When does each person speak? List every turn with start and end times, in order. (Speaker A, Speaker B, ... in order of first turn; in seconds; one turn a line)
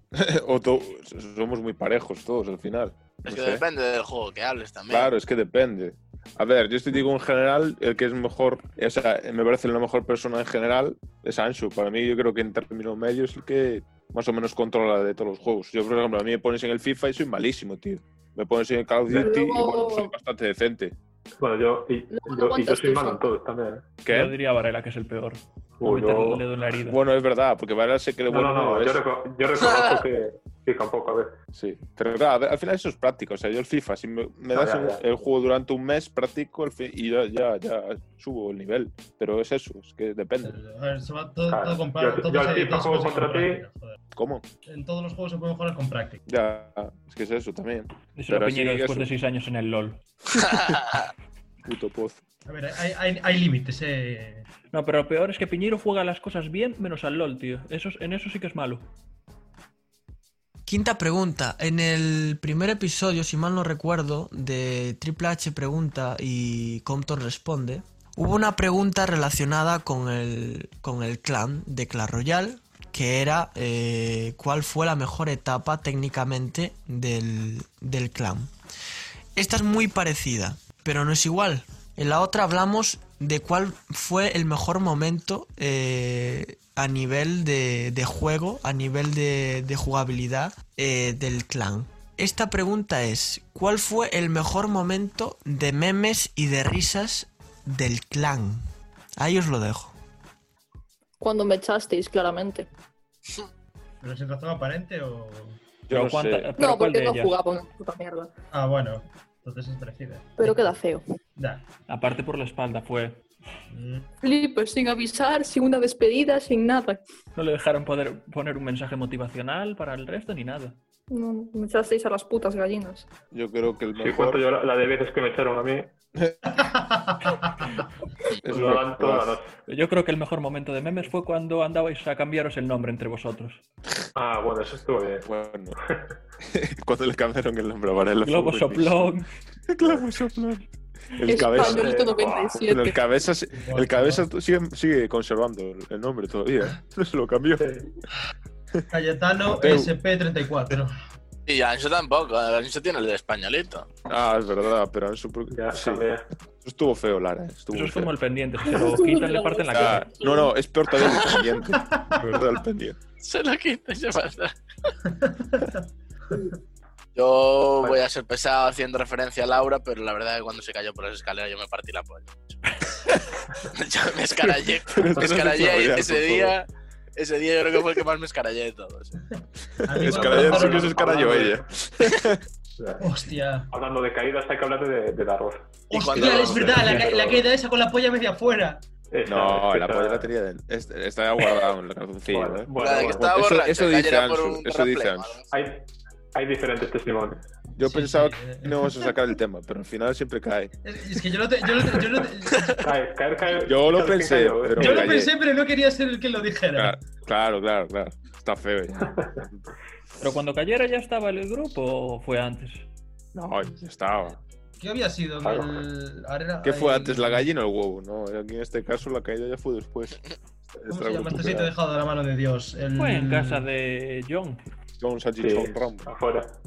Speaker A: 0.1-3.6
Speaker B: 3.3-5.1
Speaker A: 4.9-21.0
Speaker C: 19.1-20.1
Speaker D: 21.4-23.9
Speaker C: 22.1-23.2
Speaker A: 24.1-24.4
Speaker E: 24.1-27.0
Speaker D: 25.8-26.4
Speaker A: 26.8-29.0
Speaker D: 28.3-31.3
Speaker B: 29.6-30.0
Speaker A: 31.5-40.6
Speaker D: 34.5-35.0
Speaker F: 40.4-44.0
Speaker D: 41.5-43.6
Speaker A: 44.1-44.4
Speaker F: 44.7-46.2
Speaker A: 46.3-49.1
Speaker E: 48.2-50.0
Speaker B: 50.5-51.0
Speaker A: 50.5-50.8
Speaker A: 51.6-52.2
Speaker F: 52.5-54.5
Speaker E: 54.7-58.9
Speaker G: 60.7-78.5
Speaker G: 79.4-98.7
Speaker G: 99.2-100.0
Speaker C: 101.2-102.7
Speaker F: 104.0-105.6
Speaker A: 105.9-106.5
Speaker E: 105.9-107.4
Speaker C: 106.6-108.3
Speaker F: 108.5-110.3
Speaker C: 110.4-111.0
Speaker F: 111.4-111.6
Speaker E: 111.9-113.2
Speaker F: 113.7-114.1
Speaker C: 114.2-117.0
Speaker E: 117.3-120.8
Speaker C: 121.1-123.1
Speaker A: 123.3-124.4
Speaker D: 124.0-125.9
Speaker F: 126.6-127.6
Speaker A: 128.3-129.3
Speaker D: 128.5-129.5
Speaker E: 129.7-133.6
Speaker D: 134.2-135.3
Speaker A: 135.2-135.8
Speaker A: 136.4-139.1
Speaker E: 138.2-139.3
Speaker A: 139.7-141.9
Speaker C: 141.2-143.0
Speaker D: 141.4-142.6
Speaker A: 142.7-147.7
Speaker F: 143.5-144.3
Speaker D: 147.6-147.9
Speaker F: 148.9-151.0
Speaker A: 149.5-149.9
Speaker B: 151.5-153.9
Speaker A: 154.1-156.1
Speaker D: 155.5-156.2
Speaker A: 156.6-158.1
Speaker E: 157.7-160.2
Speaker C: 158.7-160.5
Speaker A: 159.7-163.0
Speaker F: 161.7-162.2
Speaker B: 163.2-164.6
Speaker F: 165.1-165.8
Speaker B: 167.2-172.6
Speaker B: 173.6-179.2
Speaker A: 174.8-176.6
Speaker F: 179.9-181.5
Speaker A: 179.9-182.4
Speaker D: 180.1-180.7
Speaker B: 180.2-181.3
Speaker D: 182.8-183.0
Speaker F: 183.0-183.7
Speaker D: 183.7-187.5
Speaker B: 185.9-187.0
Speaker F: 185.9-188.8
Speaker D: 189.1-190.3
Speaker A: 189.3-195.4
Speaker D: 192.3-193.2
Speaker B: 192.8-195.5
Speaker D: 195.5-197.4
Speaker A: 197.8-200.7
Speaker F: 197.8-199.0
Speaker F: 200.8-202.8
Speaker B: 202.5-202.8
Speaker D: 202.8-205.2
Speaker A: 203.7-205.3
Speaker F: 204.8-207.0
Speaker A: 206.8-209.7
Speaker E: 210.2-212.9
Speaker A: 213.3-214.4
Speaker F: 214.8-217.5
Speaker D: 215.4-215.8
Speaker A: 216.6-221.7
Speaker F: 220.9-223.7
Speaker E: 223.0-224.6
Speaker A: 225.0-226.1
Speaker D: 225.4-226.5